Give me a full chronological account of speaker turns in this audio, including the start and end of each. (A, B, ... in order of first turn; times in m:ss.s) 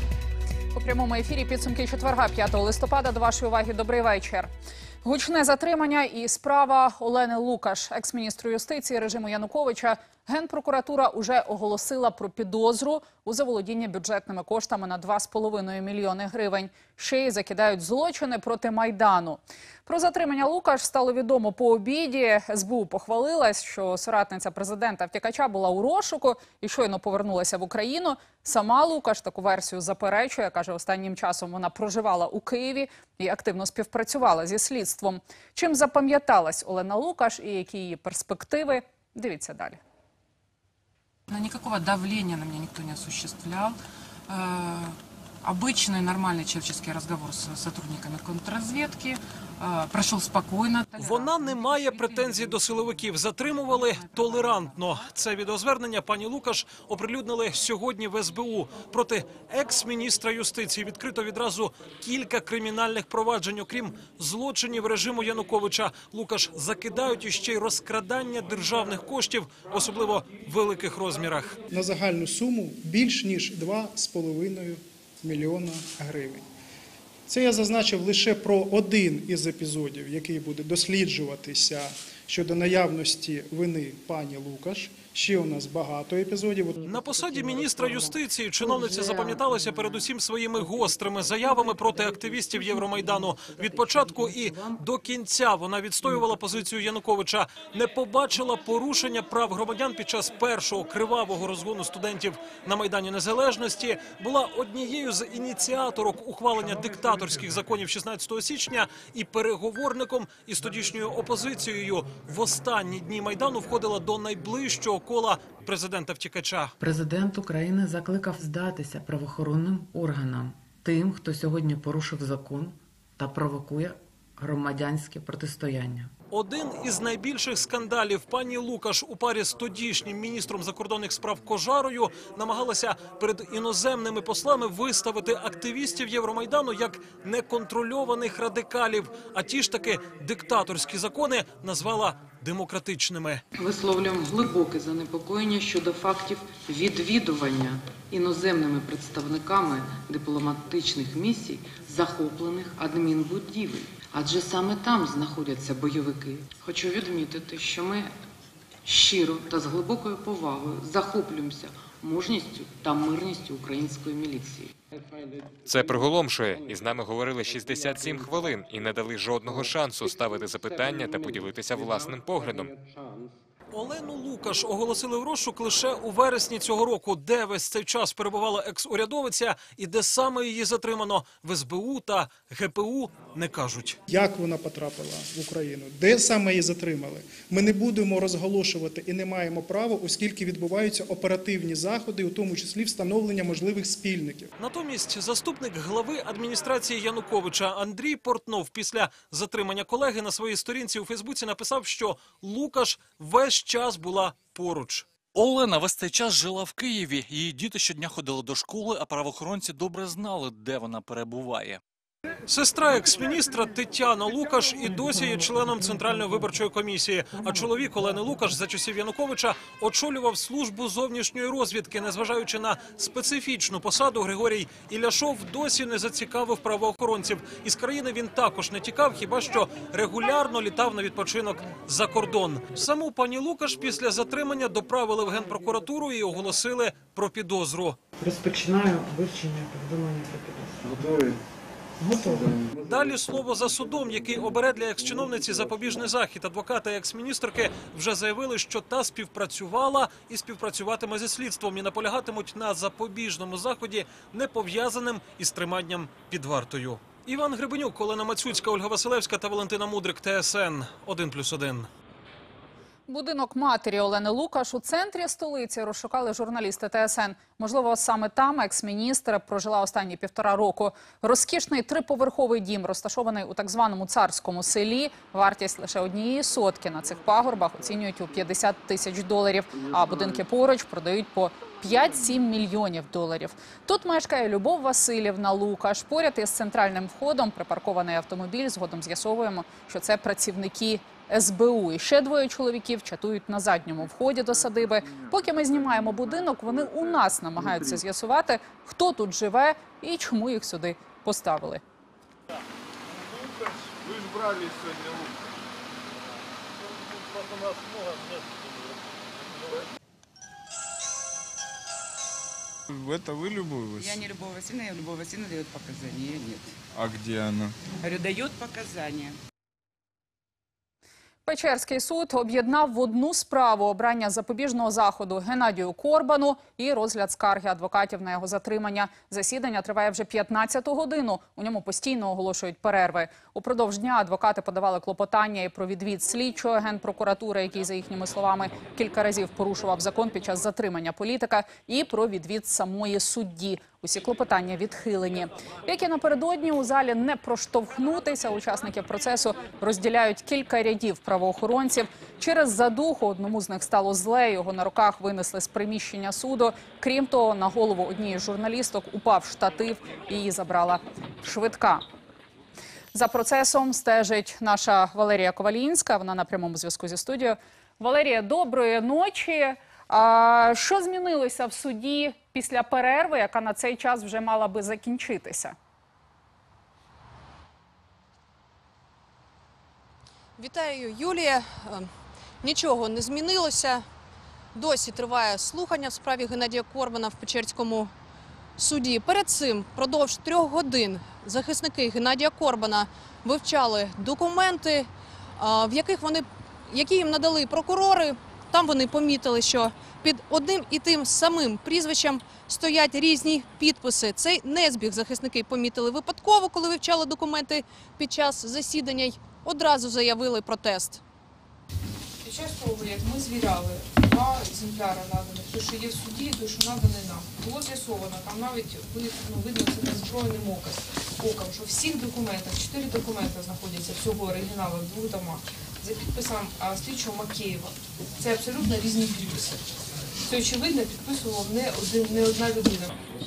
0:00.7-0:04.5 A
0:05.0-0:39.8 A
0:41.3-0:43.7 B
0:41.4-0:43.7 C
0:44.3-0:44.9 B
0:44.4-0:44.9 C
0:45.4-0:52.6 B
0:45.5-0:51.0 C
0:51.0-1:11.5 D
0:54.1-0:54.6 B
1:11.7-1:16.4 E
1:17.3-1:26.9 E
1:26.8-1:56.7 D
1:33.3-1:34.0 F
1:56.8-2:06.1 F
2:06.3-2:23.4 D
2:23.6-2:38.1 G
2:38.8-2:44.7 G
2:45.6-2:52.7 H
2:53.7-3:04.0 D
3:04.1-3:14.5 E
3:14.6-3:25.0 D
3:25.3-3:31.8 I
3:32.5-3:58.0 D
3:58.2-4:00.9 F
4:02.0-4:02.6 F
4:02.8-4:21.9 D
4:23.1-5:01.8 A
5:12.9-5:14.2 J
5:14.0-5:16.8 C
5:16.9-5:17.8 J
5:18.0-5:19.4 C
5:21.4-6:02.0 A
6:03.1-6:15.7 A
6:20.6-6:22.1 K
6:22.6-6:24.0 K
6:24.7-6:28.1 K
6:28.8-6:51.2 K
6:52.4-7:09.9 L
7:10.4-7:13.2 L